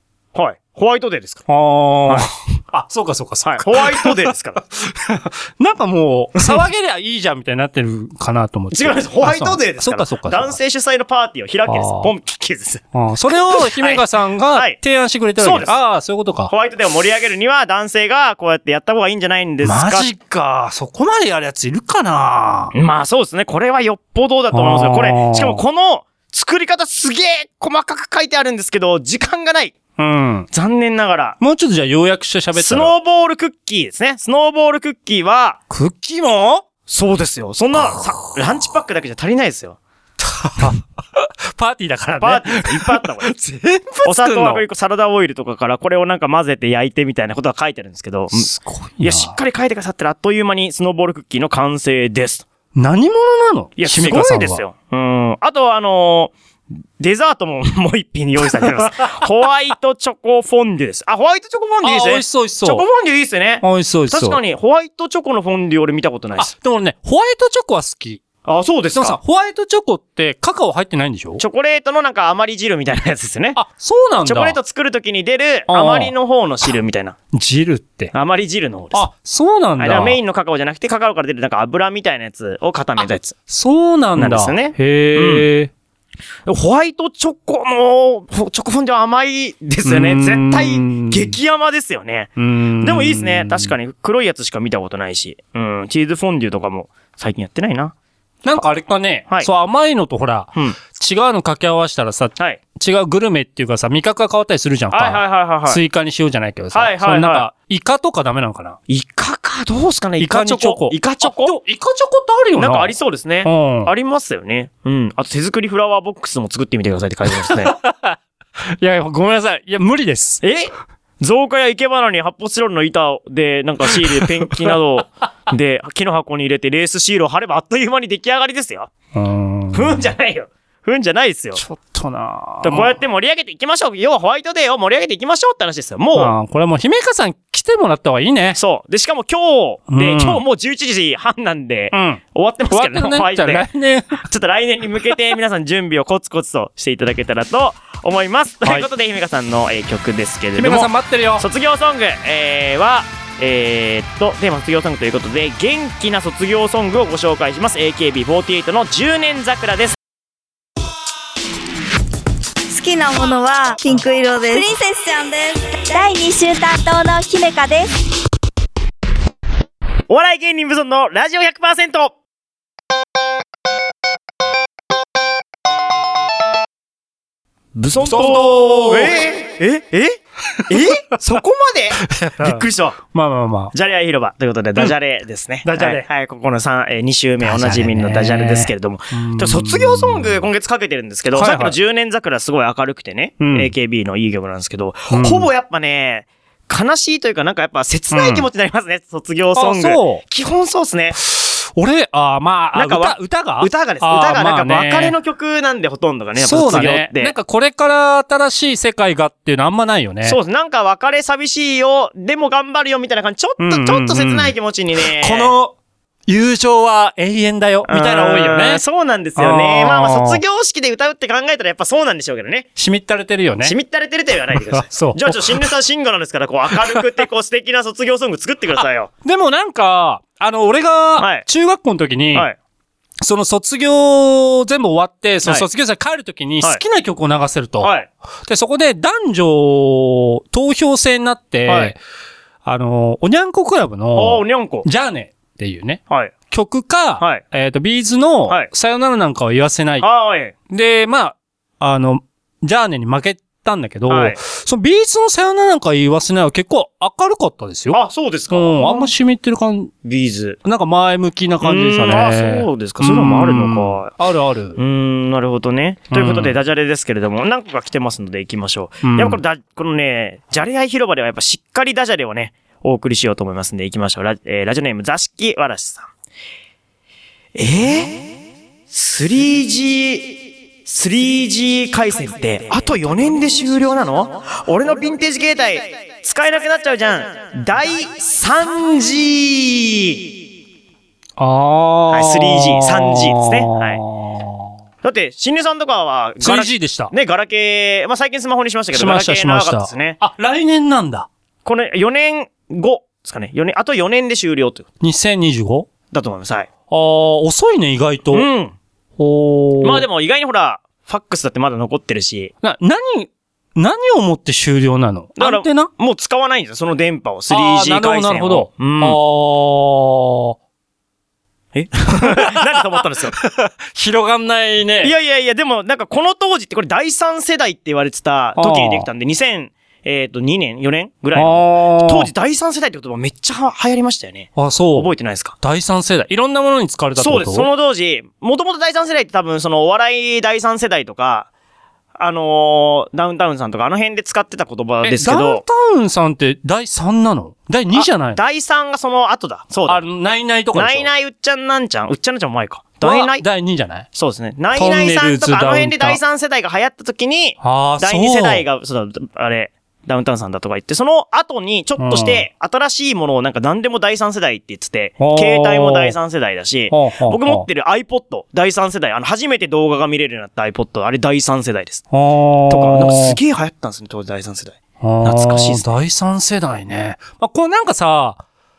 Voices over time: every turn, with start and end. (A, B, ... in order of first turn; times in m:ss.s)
0:00.3-0:01.4 A
0:01.5-0:10.6 B
0:03.4-0:04.6 A
0:08.7-0:14.8 A
0:11.7-0:12.1 B
0:12.9-0:16.5 B
0:15.4-0:15.8 A
0:16.5-0:20.1 A
0:19.6-0:22.7 B
0:22.7-0:29.8 A
0:24.5-0:25.6 B
0:30.0-0:30.5 B
0:30.5-0:31.4 A
0:31.4-0:32.9 B
0:32.5-0:35.6 A
0:35.7-0:36.7 B
0:36.9-0:39.8 A
0:40.2-0:44.6 B
0:42.2-0:43.3 A
0:44.0-0:52.4 A
0:48.3-0:49.3 B
0:52.8-0:54.6 B
0:53.8-0:56.3 A
0:57.0-1:06.5 A
1:01.8-1:02.8 B
1:03.6-1:04.4 B
1:06.4-1:08.2 B
1:08.4-1:09.2 A
1:08.9-1:11.4 B
1:11.4-1:13.6 A
1:13.6-1:14.6 B
1:14.2-1:17.2 A
1:15.7-1:16.1 B
1:17.3-1:18.1 B
1:18.1-1:19.1 A
1:18.9-1:20.2 B
1:19.8-1:23.4 A
1:23.5-1:25.7 B
1:24.2-1:25.5 A
1:26.5-1:37.9 A
1:29.8-1:31.4 B
1:32.4-1:33.7 B
1:38.4-1:48.8 B
1:44.9-1:45.8 A
1:46.7-1:47.5 A
1:48.9-1:51.6 A
1:50.2-1:53.9 B
1:52.6-1:57.8 A
1:57.3-2:00.4 B
2:00.4-2:08.9 A
2:04.0-2:04.7 B
2:09.2-2:10.0 B
2:09.7-2:11.6 A
2:11.6-2:13.0 B
2:12.6-2:16.3 A
2:16.2-2:18.6 B
2:18.6-2:23.7 A
2:19.9-2:20.4 B
2:21.9-2:24.2 B
2:24.2-2:40.0 A
2:30.6-2:31.4 B
2:42.7-2:47.9 C
2:50.1-2:52.2 A
2:57.8-3:03.0 A
2:58.0-2:59.2 B
3:00.5-3:00.9 B
3:02.0-3:03.7 B
3:03.7-3:21.2 A
3:05.6-3:06.1 B
3:07.4-3:10.4 B
3:11.4-3:11.8 B
3:13.4-3:13.7 B
3:15.1-3:15.5 B
3:18.1-3:18.5 B
3:19.6-3:20.2 B
3:21.2-3:25.2 B
3:22.7-3:27.4 A
3:26.4-3:30.4 B
3:30.2-3:35.5 A
3:33.6-3:35.8 B
3:36.3-3:38.8 B
3:37.9-3:42.7 A
3:39.4-3:40.4 B
3:42.8-3:43.7 B
3:43.6-3:49.1 A
3:44.7-3:45.7 B
3:49.2-3:52.5 B
3:51.2-3:51.5 A
3:53.2-3:57.9 B
3:57.8-3:58.1 A
3:58.4-4:02.0 B
4:01.7-4:02.0 A
4:02.6-4:10.1 B
4:04.1-4:04.9 A
4:10.0-4:10.5 A
4:10.7-4:19.9 B
4:14.1-4:14.4 A
4:17.9-4:19.1 A
4:20.0-4:20.6 A
4:20.6-4:24.8 B
4:21.6-4:24.1 A
4:24.8-4:36.1 A
4:26.1-4:26.5 B
4:29.0-4:29.4 B
4:37.6-4:38.3 A
4:38.9-4:50.2 A
4:51.4-4:54.7 B
4:52.1-4:54.0 A
4:55.0-5:00.2 A
4:56.4-4:57.1 B
4:58.9-5:01.3 B
5:01.6-5:04.9 A
5:05.0-5:05.9 B
5:06.1-5:06.7 A
5:06.9-5:08.4 B
5:08.3-5:08.8 A
5:09.2-5:10.0 B
5:09.8-5:12.5 A
5:12.6-5:15.9 B
5:15.4-5:19.2 A
5:17.5-5:20.6 B
5:21.7-5:23.4 A
5:22.2-5:25.1 B
5:25.0-5:35.6 A
5:28.6-5:29.1 B
5:31.4-5:32.3 B
5:34.6-5:37.7 B
5:37.2-5:41.5 A
5:42.2-5:45.6 A
5:45.0-5:48.4 B
5:47.9-5:50.0 A
5:49.8-5:51.1 B
5:50.7-5:53.4 A
5:53.0-5:54.1 B
5:54.1-6:12.0 A
5:54.7-5:56.2 B
5:57.6-5:58.6 B
6:02.0-6:02.4 B
6:05.2-6:06.2 B
6:06.9-6:07.7 B
6:12.1-6:13.4 B
6:12.7-6:15.9 A
6:15.0-6:18.4 B